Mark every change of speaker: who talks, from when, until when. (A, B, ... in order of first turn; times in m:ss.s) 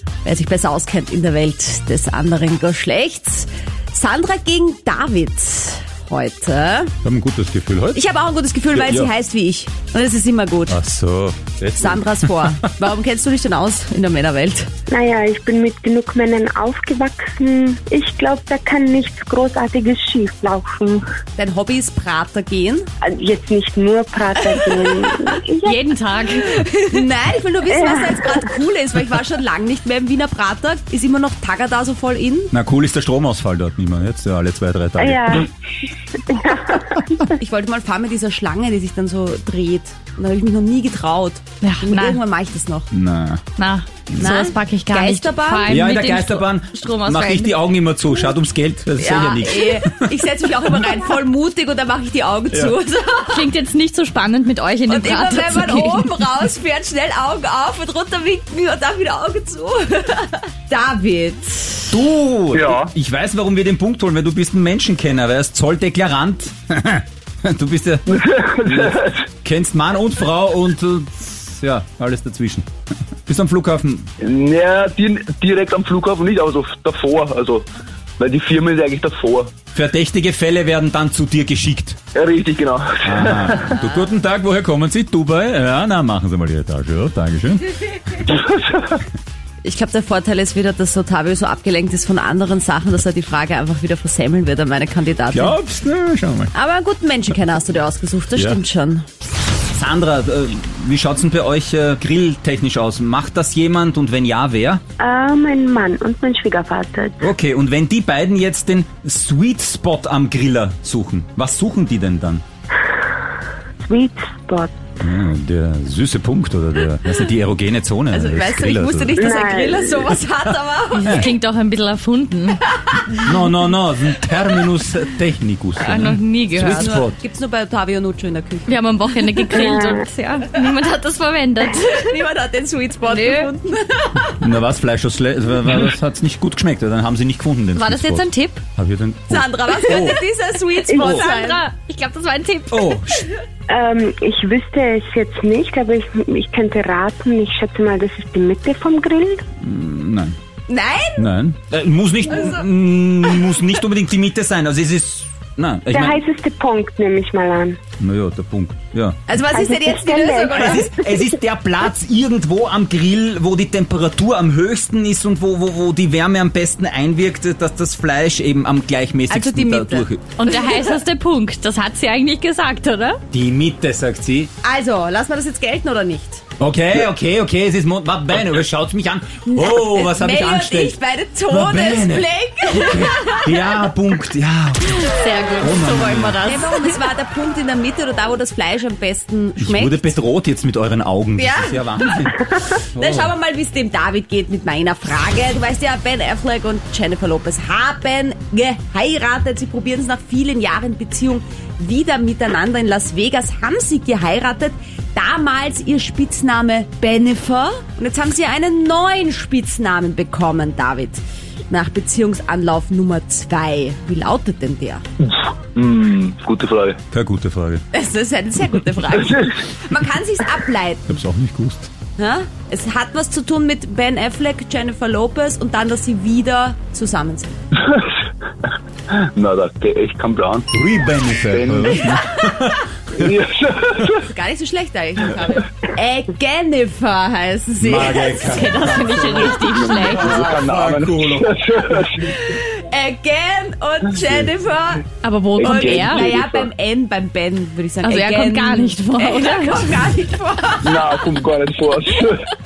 0:00.2-0:06.9 A
0:07.0-0:08.0 B
0:07.9-0:10.8 A
0:08.7-0:09.1 B
0:10.7-0:12.7 B
0:11.8-0:14.7 A
0:14.9-0:21.0 C
0:21.4-0:22.9 A
0:23.0-0:25.7 C
0:25.6-0:27.0 D
0:26.5-0:32.5 A
0:27.7-0:28.3 C
0:32.5-0:35.5 B
0:35.0-0:35.5 C
0:36.2-0:37.2 C
0:37.3-0:42.9 A
0:41.6-0:42.2 D
0:42.9-0:43.4 B
0:43.6-0:47.6 D
0:44.2-0:45.8 A
0:45.7-0:50.0 B
0:49.0-0:53.5 A
0:53.3-0:56.1 D
0:54.9-1:02.0 A
1:01.9-1:08.1 B
1:02.5-1:02.9 E
1:08.1-1:09.2 E
1:08.6-1:12.6 B
1:13.2-1:14.1 B
1:14.2-1:17.7 E
1:18.2-1:19.5 E
1:19.7-1:22.0 B
1:22.1-1:23.7 E
1:23.0-1:28.2 B
1:29.6-1:35.6 A
1:35.3-1:36.5 B
1:36.5-1:39.0 A
1:38.4-1:38.6 B
1:39.7-1:44.8 B
1:45.0-1:47.2 C
1:47.2-1:52.4 B
1:53.8-1:54.7 C
1:55.0-1:59.2 B
1:58.1-2:01.3 A
1:59.2-2:00.1 C
2:00.9-2:02.6 D
2:02.9-2:03.2 A
2:03.2-2:07.2 B
2:05.8-2:06.9 D
2:06.6-2:09.4 A
2:08.7-2:12.2 D
2:09.5-2:10.0 C
2:11.7-2:14.4 A
2:13.0-2:13.5 D
2:14.4-2:20.2 B
2:17.7-2:18.6 D
2:19.3-2:21.6 A
2:20.9-2:23.2 D
2:20.9-2:21.3 C
2:22.7-2:23.2 B
2:23.7-2:29.4 C
2:29.6-2:30.4 B
2:30.7-2:31.2 A
2:31.2-2:36.2 B
2:32.3-2:32.6 A
2:35.9-2:37.8 C
2:38.0-2:39.2 B
2:39.3-2:40.9 A
2:39.5-2:40.9 C
2:40.5-2:50.3 B
2:49.3-2:50.9 A
2:50.4-2:53.2 D
2:53.3-2:54.5 B
2:54.6-2:56.4 A
2:56.6-3:01.0 B
2:59.5-3:03.8 A
3:01.5-3:05.0 B
3:05.0-3:07.0 D
3:05.6-3:06.4 B
3:06.4-3:10.1 A
3:09.6-3:13.3 B
3:11.4-3:35.0 A
3:35.2-3:37.0 E
3:37.1-3:37.8 B
3:37.9-3:41.2 A
3:41.1-3:41.9 B
3:42.2-3:47.6 A
3:47.8-3:48.3 E
3:49.1-3:50.7 E
3:50.7-3:53.2 B
3:51.4-3:52.1 E
3:53.1-3:54.2 E
3:54.2-3:58.6 A
3:57.8-4:02.0 B
3:58.1-4:00.4 D
3:59.5-4:02.4 E
4:02.2-4:05.1 A
4:05.2-4:06.3 D
4:05.6-4:06.7 E
4:05.6-4:11.2 A
4:08.0-4:10.0 D
4:10.8-4:12.5 E